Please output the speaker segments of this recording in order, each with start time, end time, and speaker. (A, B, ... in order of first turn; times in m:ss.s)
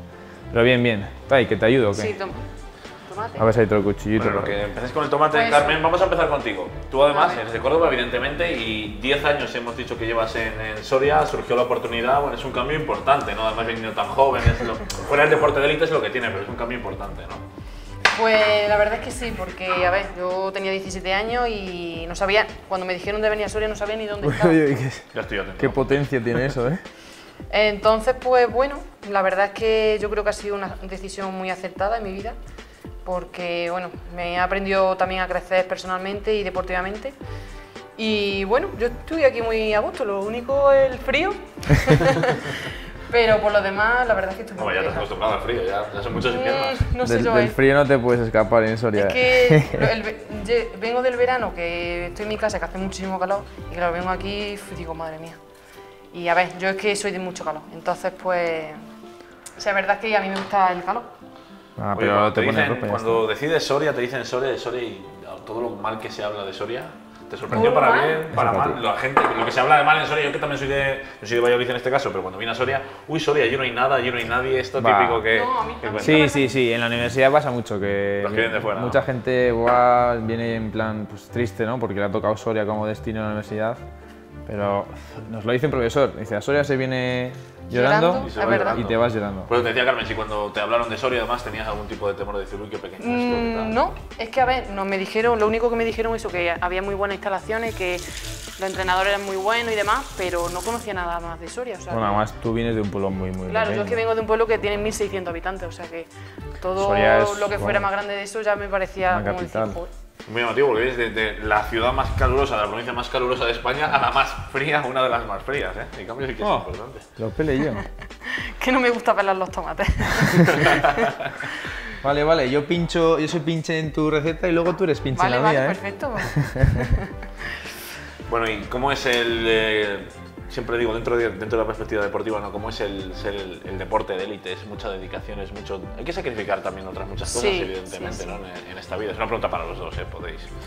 0:00.5-0:02.2 A
0:01.9-0:02.4 B
0:03.0-0:03.5 B
0:03.4-0:04.6 A
0:04.2-0:17.5 C
0:05.3-0:05.8 B
0:07.1-0:07.4 B
0:18.2-0:24.6 B
0:24.2-0:26.8 A
0:25.1-0:26.5 C
0:27.5-0:32.4 B
0:33.0-0:37.1 B
0:38.0-0:45.1 B
0:44.6-0:46.9 C
0:46.2-0:47.6 B
0:47.0-0:49.9 A
0:48.9-0:55.4 B
0:56.1-0:58.8 B
0:59.6-1:01.1 B
1:01.8-1:03.2 A
1:02.0-1:16.2 C
1:07.5-1:08.2 B
1:08.3-1:08.8 A
1:14.8-1:15.2 A
1:15.3-1:16.5 B
1:16.0-1:23.8 A
1:18.2-1:19.0 C
1:24.5-1:29.5 A
1:27.7-1:28.8 B
1:28.2-1:33.9 C
1:33.0-1:38.0 B
1:38.6-1:42.2 B
1:41.9-1:44.0 A
1:43.5-1:49.9 B
1:46.8-1:47.9 A
1:49.1-1:49.8 A
1:50.3-1:57.1 C
1:56.4-1:57.8 A
1:57.7-2:01.2 B
2:00.2-2:00.7 A
2:00.5-2:01.3 C
2:02.0-2:06.9 A
2:05.2-2:07.2 B
2:08.3-2:20.5 C
2:17.3-2:18.4 B